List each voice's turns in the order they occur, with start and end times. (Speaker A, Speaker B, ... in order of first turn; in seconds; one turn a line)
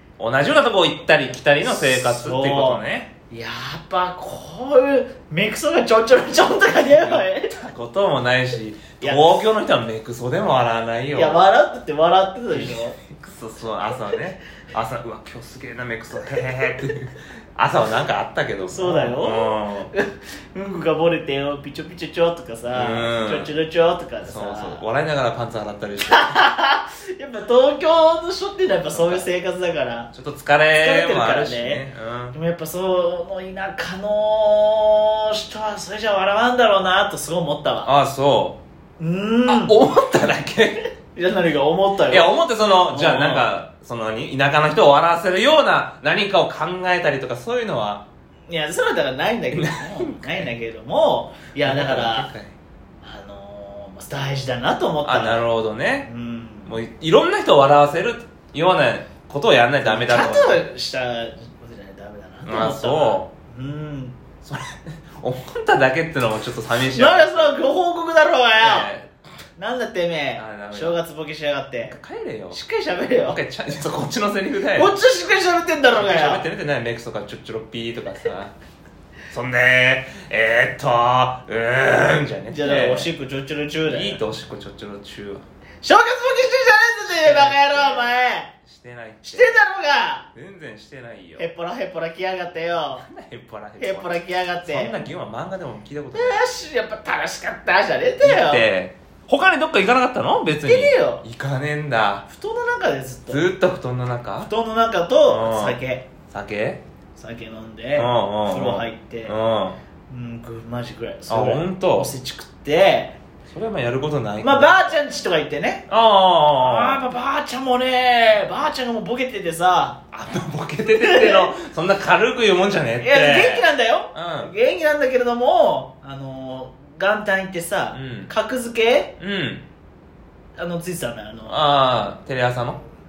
Speaker A: 0.2-3.1
Speaker B: 1.6-7.6
Speaker A: 6.8-11.4
Speaker B: 9.0-9.4
Speaker B: 11.1-13.0
Speaker A: 12.5-19.9
Speaker B: 18.7-24.8
Speaker A: 22.7-23.5
Speaker A: 24.2-26.4
Speaker B: 26.1-30.1
Speaker A: 28.9-29.2
Speaker A: 30.1-32.4
Speaker B: 30.8-37.9
Speaker A: 37.8-38.6
Speaker B: 39.0-39.8
Speaker A: 39.4-40.9
Speaker B: 41.1-42.4
Speaker A: 42.1-48.0
Speaker B: 42.9-43.5
Speaker B: 48.5-52.3
Speaker A: 49.5-50.5
Speaker A: 51.6-52.5
Speaker B: 53.0-55.5
Speaker A: 55.0-56.1
Speaker B: 56.0-56.7
Speaker A: 56.6-60.6
Speaker B: 59.8-64.2
Speaker A: 62.4-63.3
Speaker A: 64.4-67.6
Speaker B: 66.8-68.9
Speaker A: 68.6-69.1
Speaker B: 69.6-72.0
Speaker A: 70.3-71.0
Speaker A: 71.8-72.6
Speaker B: 72.5-73.4
Speaker A: 73.2-74.9
Speaker B: 74.7-76.5
Speaker A: 75.9-78.5
Speaker A: 79.3-83.1
Speaker B: 82.5-84.2
Speaker A: 83.9-85.4
Speaker B: 85.8-88.5
Speaker A: 87.2-89.5
Speaker B: 89.2-90.3
Speaker A: 90.3-91.5
Speaker B: 91.4-93.0
Speaker A: 93.0-96.4
Speaker B: 93.8-95.1
Speaker B: 96.1-98.6
Speaker A: 98.2-102.3
Speaker B: 100.6-101.2
Speaker B: 102.3-103.5
Speaker A: 103.3-104.5
Speaker B: 104.4-106.1
Speaker A: 105.2-105.8
Speaker A: 106.3-106.8
Speaker B: 107.2-109.3
Speaker A: 108.0-109.8
Speaker B: 110.1-113.2
Speaker A: 111.3-112.1
Speaker A: 113.5-114.8
Speaker B: 114.4-115.8
Speaker A: 115.9-117.0
Speaker B: 116.5-120.0
Speaker A: 120.1-124.5
Speaker B: 120.9-121.5
Speaker B: 123.0-129.1
Speaker A: 127.9-128.3
Speaker A: 129.2-129.7
Speaker B: 130.6-131.6
Speaker A: 131.5-132.8